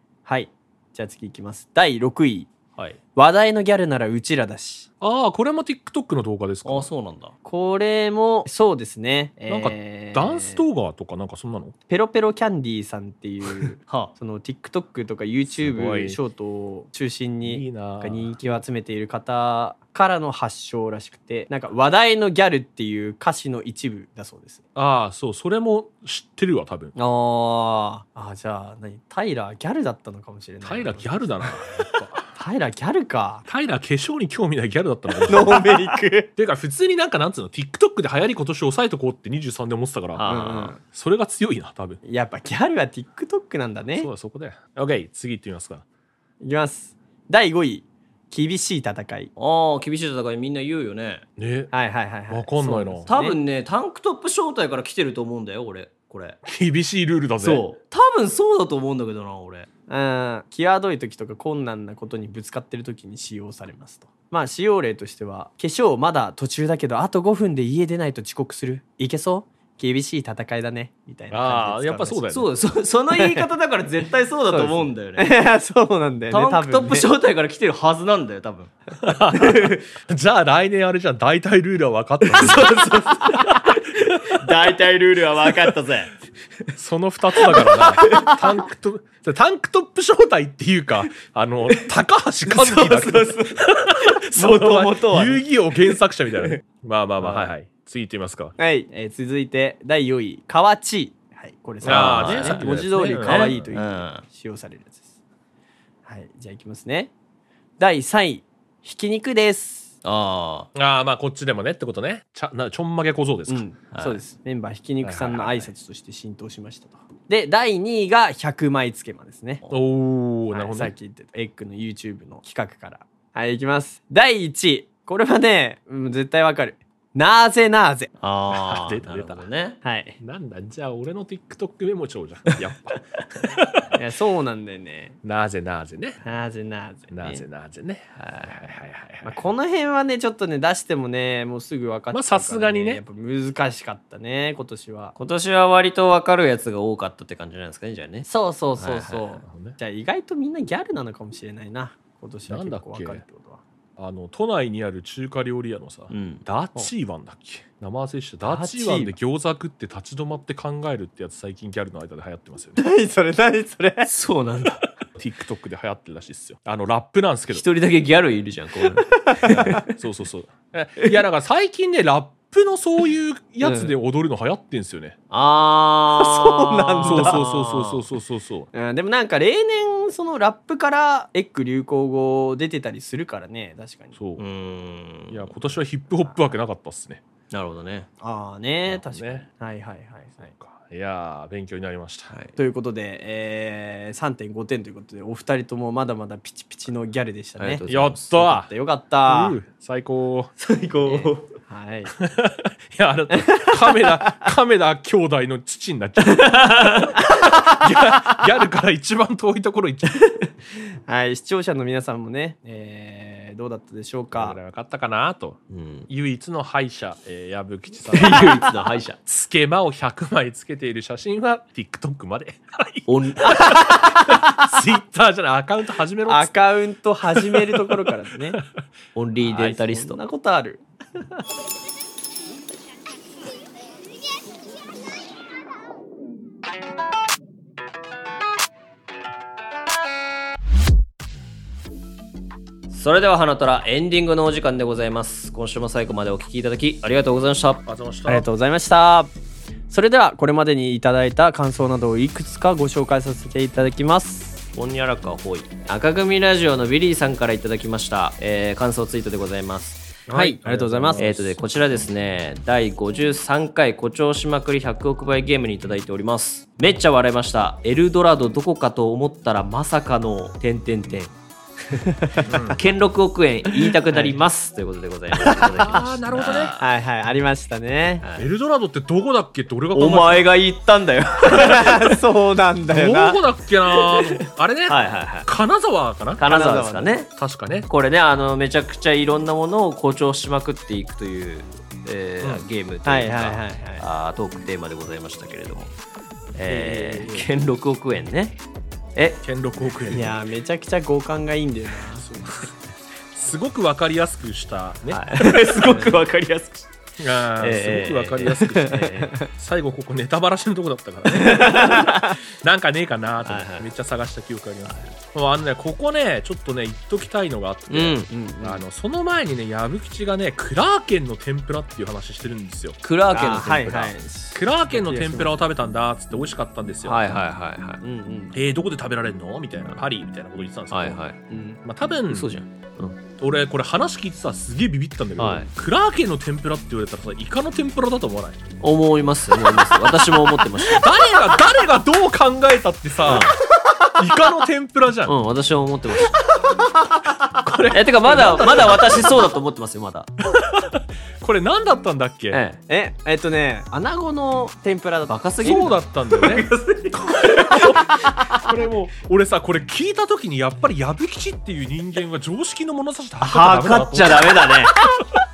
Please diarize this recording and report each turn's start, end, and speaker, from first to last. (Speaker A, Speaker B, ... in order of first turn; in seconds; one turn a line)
Speaker A: 0.3-2.5
Speaker A: 3.1-4.9
Speaker B: 5.0-6.9
Speaker C: 6.7-7.3
Speaker A: 7.5-10.6
Speaker B: 9.5-11.7
Speaker A: 11.9-24.6
Speaker C: 13.9-14.1
Speaker B: 15.6-16.2
Speaker B: 17.4-18.4
Speaker B: 24.8-26.9
Speaker C: 27.0-28.0
Speaker A: 28.1-31.5
Speaker B: 30.6-32.3
Speaker A: 32.4-33.5
Speaker B: 33.5-35.9
Speaker A: 35.2-36.3
Speaker B: 36.4-42.0
Speaker C: 40.2-40.8
Speaker A: 40.3-40.8
Speaker A: 42.0-44.1
Speaker B: 44.0-45.8
Speaker A: 46.4-49.3
Speaker C: 49.4-51.2
Speaker B: 51.4-51.7
Speaker A: 51.7-53.4
Speaker B: 52.3-53.1
Speaker C: 53.1-56.4
Speaker B: 56.5-57.6
Speaker C: 57.4-59.7
Speaker A: 59.9-72.2
Speaker B: 71.3-72.5
Speaker C: 72.3-75.3
Speaker A: 73.2-73.5
Speaker A: 74.5-77.1
Speaker C: 76.3-78.7
Speaker B: 79.0-82.7
Speaker C: 79.3-79.8
Speaker C: 82.3-86.1
Speaker B: 86.8-98.5
Speaker C: 87.5-88.4
Speaker C: 92.5-96.0
Speaker A: 98.6-105.0
Speaker B: 101.8-103.7
Speaker C: 101.8-104.2
Speaker A: 106.1-107.1
Speaker A: 107.8-109.9
Speaker C: 110.0-110.7
Speaker B: 110.8-113.7
Speaker A: 113.5-119.6
Speaker C: 113.9-114.2
Speaker B: 115.0-115.7
Speaker B: 119.7-120.9
Speaker A: 120.5-128.1
Speaker C: 128.2-129.8
Speaker B: 128.5-129.4
Speaker A: 129.8-130.2
Speaker B: 130.2-134.0
Speaker A: 133.9-135.2
Speaker B: 135.2-136.2
Speaker A: 136.2-137.4
Speaker B: 137.1-139.4
Speaker C: 138.2-138.5
Speaker A: 139.2-145.1
Speaker B: 142.1-143.0
Speaker C: 145.2-148.3
Speaker A: 148.3-153.6
Speaker C: 148.8-149.2
Speaker B: 149.4-149.8
Speaker B: 152.5-153.2
Speaker B: 154.0-162.8
Speaker C: 156.1-156.4
Speaker A: 158.4-159.1
Speaker A: 162.8-164.1
Speaker C: 164.0-164.8
Speaker B: 165.2-167.7
Speaker C: 167.5-169.8
Speaker A: 169.3-169.7
Speaker B: 169.4-175.2
Speaker A: 173.6-173.9
Speaker C: 175.3-178.0
Speaker A: 176.1-177.4
Speaker B: 177.0-178.7
Speaker A: 178.7-184.1
Speaker B: 184.2-184.4
Speaker C: 184.4-185.5
Speaker B: 185.3-187.2
Speaker C: 187.5-188.1
Speaker A: 188.2-190.5
Speaker B: 188.9-189.5
Speaker B: 190.4-192.3
Speaker A: 192.6-199.6
Speaker C: 197.6-198.2
Speaker B: 197.9-198.7
Speaker B: 199.3-200.5
Speaker C: 200.6-201.5
Speaker A: 201.1-202.2
Speaker B: 202.2-210.2
Speaker A: 203.3-204.2
Speaker C: 206.4-207.1
Speaker A: 211.1-214.6
Speaker B: 214.3-218.6
Speaker C: 215.7-216.1
Speaker C: 218.1-219.2
Speaker B: 219.3-226.5
Speaker C: 223.1-223.8
Speaker A: 223.6-224.7
Speaker A: 226.3-228.6
Speaker B: 227.3-227.9
Speaker C: 229.2-230.2
Speaker A: 229.4-230.8
Speaker C: 242.9-247.8
Speaker B: 247.9-248.5
Speaker A: 248.3-249.3
Speaker A: 249.9-254.6
Speaker C: 254.7-271.4
Speaker A: 260.3-261.2
Speaker B: 260.6-261.6
Speaker C: 271.9-276.8
Speaker A: 272.1-272.5
Speaker B: 272.5-272.8
Speaker A: 273.9-274.4
Speaker A: 275.4-276.1
Speaker B: 275.8-276.7
Speaker A: 276.7-278.2
Speaker C: 278.2-278.5
Speaker B: 278.4-280.5
Speaker C: 279.9-282.1
Speaker A: 281.4-283.4
Speaker B: 282.9-286.6
Speaker C: 284.9-285.5
Speaker C: 286.4-287.3
Speaker A: 286.5-287.2
Speaker B: 287.4-287.9
Speaker C: 287.9-295.9
Speaker A: 293.1-294.0
Speaker C: 296.5-298.6
Speaker A: 296.7-297.2
Speaker B: 296.9-297.5
Speaker C: 299.1-299.4
Speaker B: 299.4-300.4
Speaker A: 300.1-302.3
Speaker B: 302.2-302.7
Speaker B: 303.3-305.8
Speaker C: 305.1-306.9
Speaker A: 305.8-306.1
Speaker B: 307.2-323.0
Speaker C: 307.6-309.3
Speaker A: 308.8-309.5
Speaker A: 311.4-312.1
Speaker C: 313.4-313.9
Speaker C: 314.9-315.1
Speaker C: 317.9-318.3
Speaker A: 318.3-318.8
Speaker C: 323.0-324.2
Speaker A: 323.3-325.6
Speaker B: 324.5-327.4
Speaker C: 327.0-328.0
Speaker A: 328.0-328.5
Speaker B: 328.5-331.2
Speaker C: 330.9-331.4
Speaker A: 331.5-331.8
Speaker B: 331.8-338.7
Speaker C: 332.3-332.7
Speaker C: 335.4-335.7
Speaker C: 338.8-341.1
Speaker B: 339.7-340.0
Speaker B: 340.8-343.6
Speaker C: 343.3-343.6
Speaker B: 344.2-345.3
Speaker C: 345.3-346.4
Speaker B: 347.5-349.5
Speaker C: 347.9-350.3
Speaker B: 350.6-352.6
Speaker C: 352.5-352.8
Speaker A: 352.9-355.9
Speaker C: 355.3-358.2
Speaker B: 355.6-364.8
Speaker C: 363.4-365.0